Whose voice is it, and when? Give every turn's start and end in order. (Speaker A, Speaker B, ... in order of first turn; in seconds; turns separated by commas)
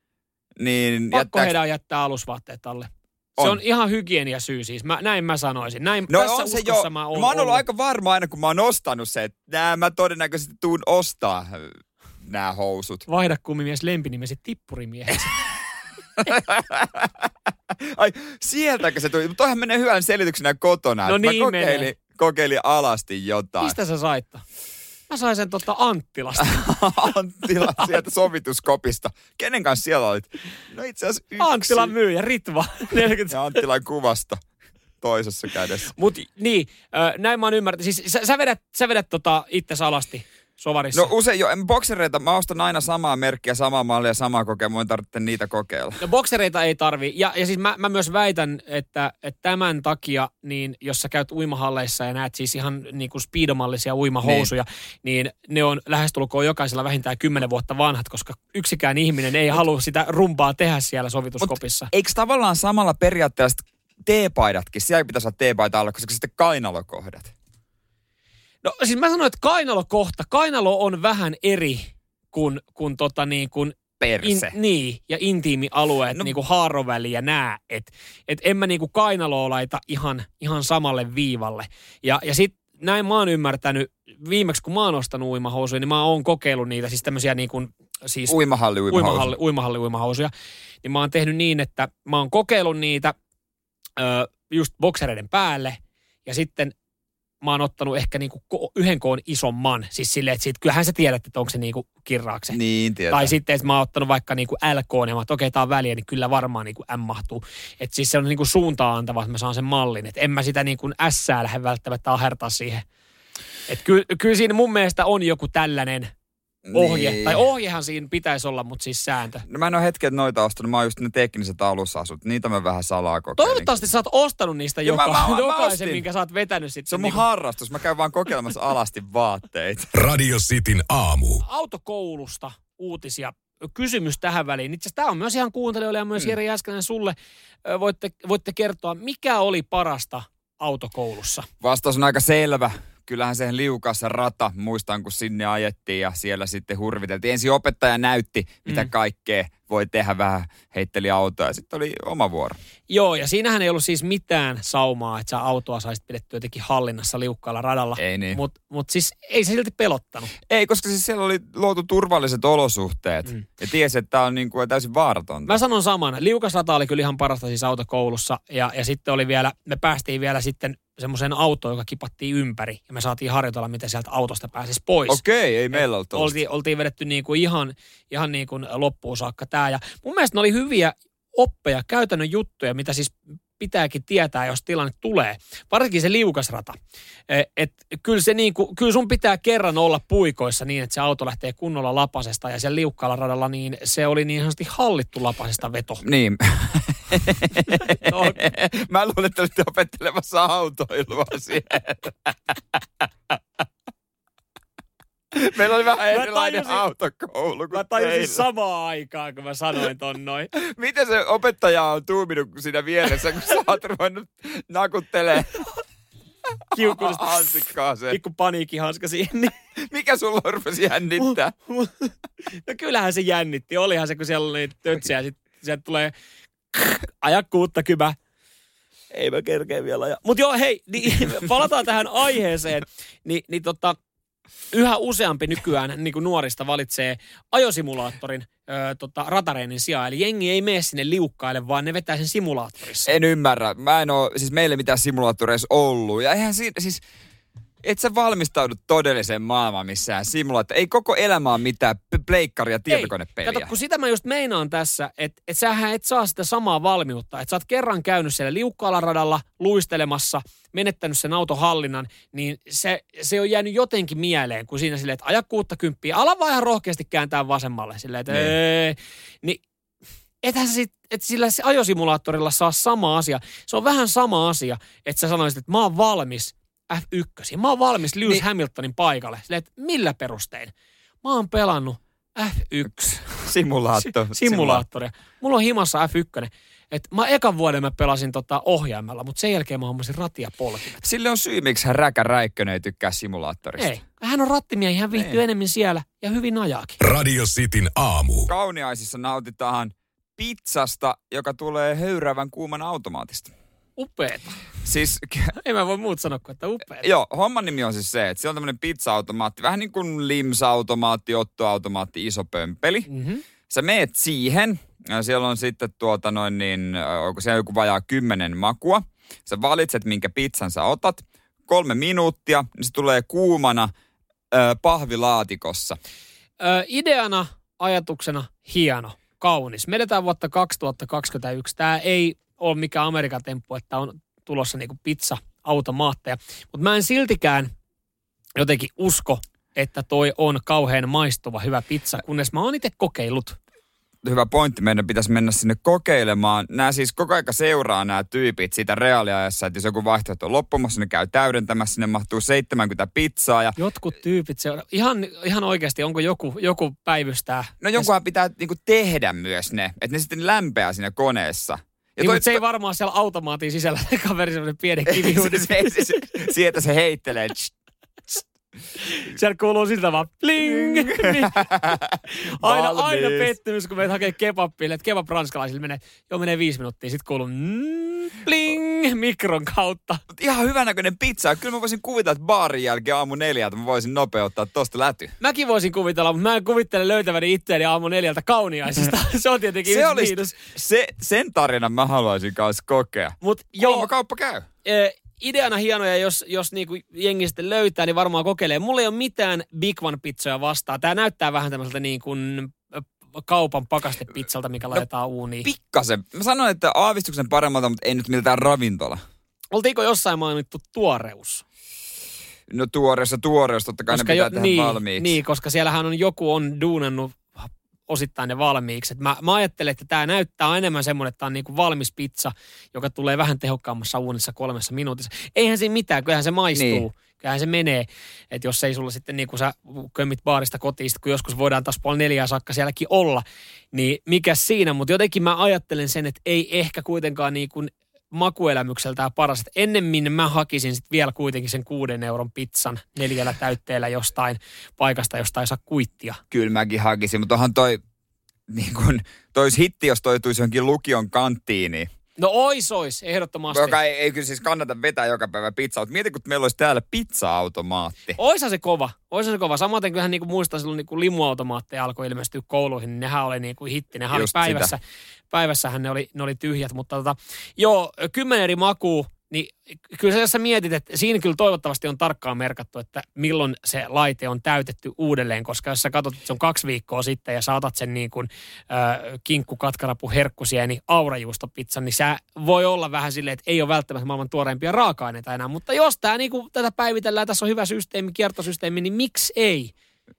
Speaker A: 0.6-1.5, Speaker B: 1.1-7.6, Speaker A: 6.1-13.0, Speaker B: 13.1-15.3, Speaker A: 16.2-23.8, Speaker B: 21.0-21.9, Speaker B: 23.6-24.4, Speaker B: 25.1-26.6, Speaker A: 26.4-31.9, Speaker B: 31.4-33.4, Speaker A: 33.3-34.4, Speaker A: 35.0-35.9, Speaker B: 35.9-41.1, Speaker A: 40.9-46.0, Speaker B: 46.0-61.9, Speaker A: 54.2-54.5, Speaker A: 61.4-67.3, Speaker B: 68.6-88.3, Speaker A: 74.0-74.5, Speaker A: 88.3-89.3, Speaker B: 88.9-90.3, Speaker B: 90.8-93.1, Speaker B: 94.0-96.7, Speaker B: 97.4-102.6, Speaker A: 102.5-103.3, Speaker B: 103.1-112.8, Speaker B: 113.7-116.1, Speaker A: 116.6-117.4, Speaker B: 116.7-119.4, Speaker A: 119.5-123.8, Speaker B: 123.4-127.2, Speaker A: 124.8-126.0, Speaker A: 126.9-129.9, Speaker C: 129.9-131.4, Speaker B: 131.4-141.5, Speaker A: 141.6-152.6, Speaker B: 152.9-160.3, Speaker A: 158.0-158.4, Speaker A: 160.5-165.6, Speaker B: 165.4-175.2, Speaker A: 175.1-176.4, Speaker B: 175.7-186.8, Speaker B: 187.3-196.0, Speaker A: 196.0-203.4, Speaker B: 197.8-198.4, Speaker A: 205.3-208.4, Speaker B: 206.1-206.9, Speaker B: 207.7-210.5, Speaker A: 210.5-215.7, Speaker B: 216.7-217.4, Speaker A: 216.8-218.2, Speaker B: 218.1-219.5, Speaker A: 219.8-221.5, Speaker B: 221.2-226.1, Speaker B: 226.7-228.2, Speaker B: 229.1-234.0, Speaker B: 234.7-243.1, Speaker A: 243.1-247.0, Speaker A: 247.8-253.7, Speaker B: 252.9-269.6, Speaker B: 270.4-291.0, Speaker A: 283.2-284.8, Speaker A: 291.0-293.9, Speaker B: 293.8-297.0, Speaker C: 297.0-298.5, Speaker A: 298.5-303.5, Speaker B: 304.0-304.6, Speaker A: 304.8-305.5, Speaker B: 305.6-307.1, Speaker A: 307.0-313.1, Speaker B: 313.1-313.4, Speaker A: 313.7-323.9, Speaker A: 324.5-326.0, Speaker B: 326.6-337.7, Speaker B: 338.6-343.6, Speaker A: 344.2-353.8, Speaker B: 353.8-358.1, Speaker A: 357.8-362.6, Speaker B: 362.2-366.2, Speaker A: 365.1-367.7, Speaker B: 368.9-371.7, Speaker A: 370.7-373.5, Speaker B: 372.3-380.2, Speaker A: 380.3-385.3, Speaker B: 385.4-390.6, Speaker A: 389.9-394.7, Speaker B: 393.4-394.1, Speaker B: 394.8-405.7, Speaker A: 405.6-409.2, Speaker B: 409.7-411.6, Speaker A: 412.7-415.3, Speaker B: 414.1-446.4, Speaker A: 426.7-427.0, Speaker A: 446.5-448.0, Speaker A: 448.7-452.1, Speaker B: 452.4-454.0, Speaker A: 453.7-458.4, Speaker B: 458.4-465.0, Speaker A: 464.3-464.9, Speaker B: 465.5-489.9